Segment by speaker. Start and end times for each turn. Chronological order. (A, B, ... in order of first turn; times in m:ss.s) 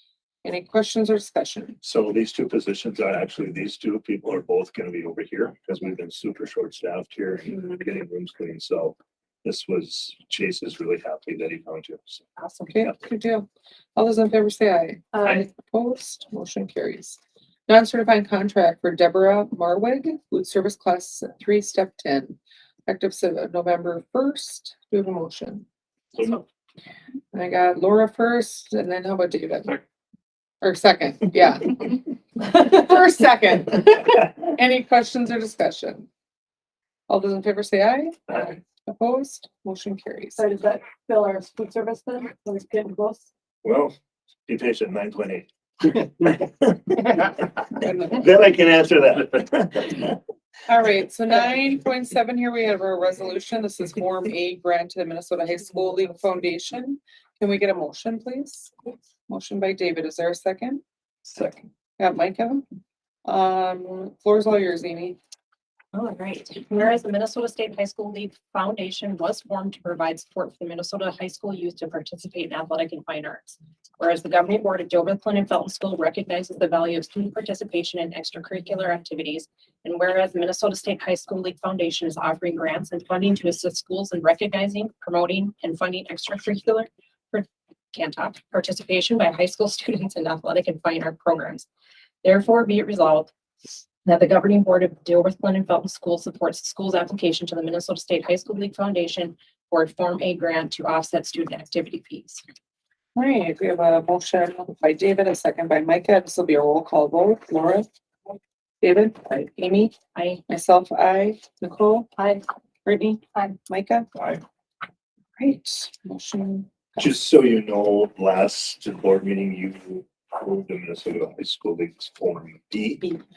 0:00.4-0:01.8 A
0:01.8-0:12.2 B
0:12.4-0:12.7 C
0:12.7-0:25.7 A
0:27.3-0:29.8 A
0:30.6-0:36.1 A
0:37.1-0:40.4 A
0:40.4-0:43.2 D
0:43.6-0:44.0 B
0:44.5-0:50.2 B
0:47.8-0:48.2 A
0:50.7-0:58.7 A
0:59.3-1:00.8 A
1:01.3-1:02.6 A
1:03.2-1:05.2 A
1:05.9-1:31.7 C
1:32.2-1:33.3 C
1:34.0-1:42.4 C
1:43.2-1:47.9 A
1:48.8-1:49.9 A
1:50.1-1:50.4 C
1:50.5-1:52.1 A
1:52.2-1:52.4 C
1:52.9-1:54.1 A
1:55.4-1:57.0 A
1:57.0-2:03.1 B